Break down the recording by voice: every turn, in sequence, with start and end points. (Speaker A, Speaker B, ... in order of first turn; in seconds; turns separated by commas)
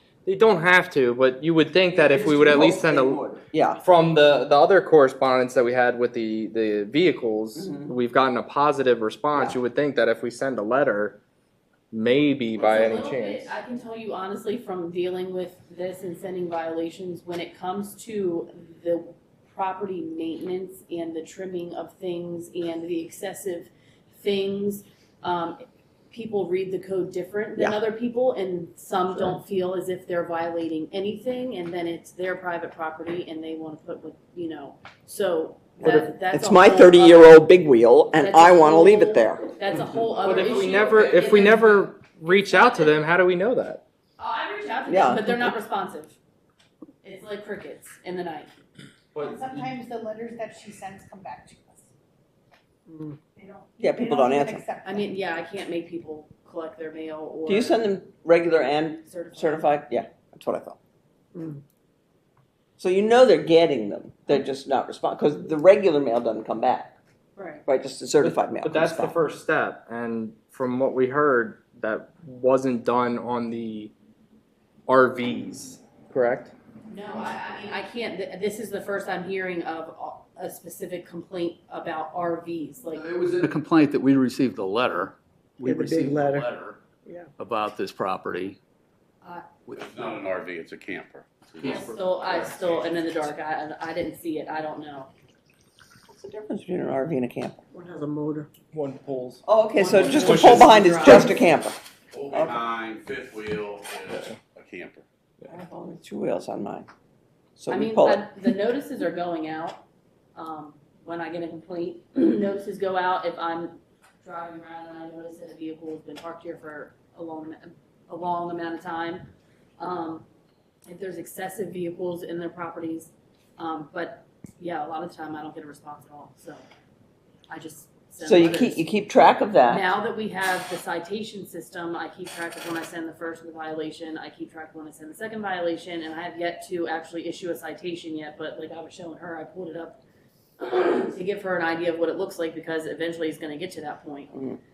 Speaker A: 0.2-3.2, Speaker B: 1.9-3.8, Speaker A: 3.8-11.2, Speaker B: 7.6-7.9, Speaker A: 11.9-13.5, Speaker C: 12.6-37.5, Speaker A: 35.8-36.1, Speaker B: 36.3-39.6, Speaker C: 38.1-42.9, Speaker A: 40.2-43.8, Speaker C: 44.2-46.2, Speaker B: 44.9-45.6, Speaker C: 47.0-48.5, Speaker A: 49.1-49.6, Speaker D: 49.2-51.8, Speaker E: 52.9-53.2, Speaker D: 53.5-55.0, Speaker B: 53.8-54.6, Speaker C: 54.8-57.9, Speaker B: 57.4-60.8, Speaker C: 59.0-59.8, Speaker E: 61.3-61.6, Speaker B: 62.8-67.0, Speaker C: 67.3-67.6, Speaker B: 67.7-69.2, Speaker A: 68.2-73.9, Speaker A: 74.9-76.5, Speaker C: 76.9-83.1, Speaker F: 82.9-86.7, Speaker E: 85.6-86.5, Speaker F: 87.4-88.6, Speaker C: 89.2-89.5, Speaker G: 89.8-92.9, Speaker C: 91.6-95.1, Speaker B: 96.1-97.6, Speaker E: 97.7-98.5, Speaker A: 98.7-99.4, Speaker B: 99.4-101.8, Speaker C: 99.7-101.6, Speaker A: 100.2-100.6, Speaker G: 102.1-105.0, Speaker B: 102.3-102.6, Speaker B: 105.5-106.9, Speaker B: 107.6-108.3, Speaker C: 107.7-109.8, Speaker C: 110.3-119.3, Speaker C: 119.8-120.2, Speaker C: 120.8-126.6, Speaker C: 127.5-128.9, Speaker B: 128.2-129.8, Speaker C: 129.6-140.0, Speaker C: 140.6-144.4